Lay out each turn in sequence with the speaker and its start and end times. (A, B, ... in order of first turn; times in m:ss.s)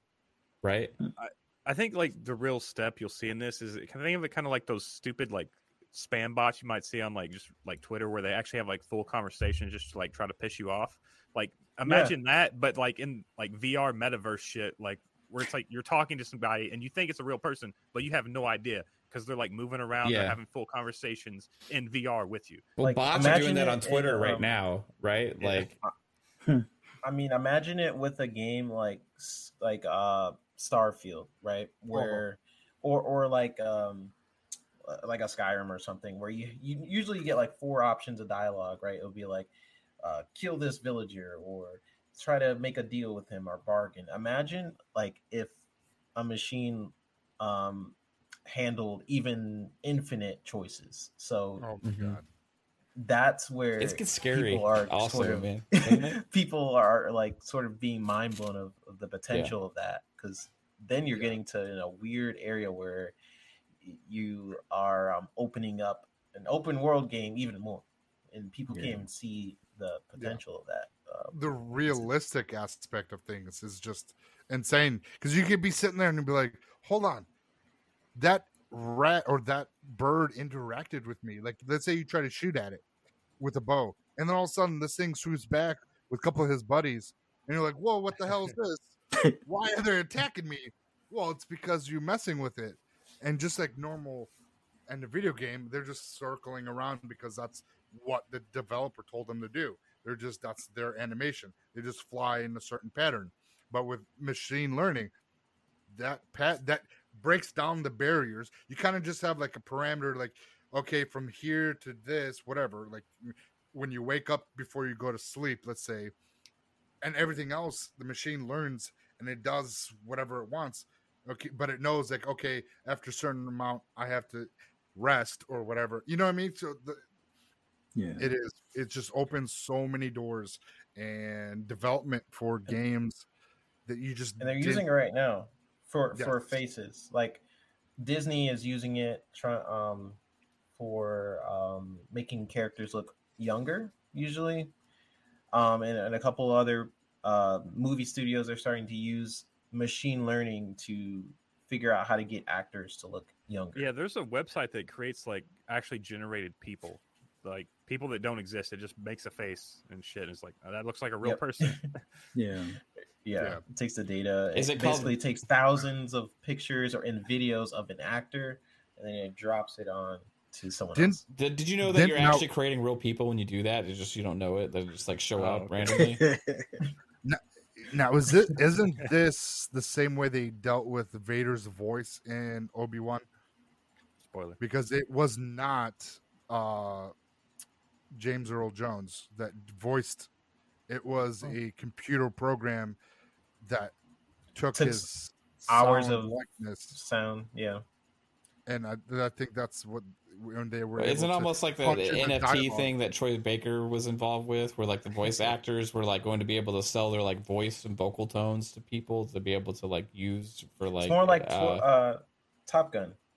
0:00.6-0:00.9 A
0:01.2-0:22.7 B
0:11.8-0:12.1 C
0:20.0-0:20.4 A
0:22.8-0:25.7 A
0:22.8-0:24.5 C
0:25.4-0:25.9 C
0:27.0-0:34.1 C
0:31.9-0:32.2 D
0:34.8-0:39.5 C
0:40.0-0:45.5 C
0:46.2-0:48.0 C
0:48.5-0:51.7 C
0:51.6-0:52.2 D
0:51.8-0:52.2 A
0:53.0-1:03.1 C
0:53.8-0:56.2 A
1:03.8-1:12.1 C
1:08.7-1:09.0 E
1:11.3-1:17.3 D
1:18.2-1:22.8 D
1:23.4-1:34.3 D
1:34.9-1:45.1 D
1:45.9-1:56.1 D
1:57.0-2:07.0 D
2:07.9-2:08.3 E
2:08.2-2:13.3 D
2:13.8-2:14.8 D
2:14.4-2:17.4 C
2:18.0-2:20.2 C
2:20.8-2:24.7 C
2:25.5-2:33.8 C
2:33.7-2:42.1 B
2:41.2-2:41.9 C
2:42.3-2:42.8 E
2:43.2-2:51.2 C
2:44.5-2:45.2 A
2:50.9-2:51.2 D
2:51.3-2:56.2 A
2:51.8-2:52.4 D
2:55.4-2:56.0 B
2:55.9-2:56.8 E
2:57.2-3:03.2 D
3:04.3-3:04.6 B
3:04.6-3:07.1 D
3:08.1-3:10.3 D
3:10.9-3:13.0 D
3:13.6-3:13.9 D
3:14.5-3:17.0 D
3:14.7-3:15.0 C
3:15.7-3:16.3 C
3:16.9-3:17.8 C
3:18.6-3:22.9 D
3:21.0-3:31.8 A
3:31.0-3:33.2 C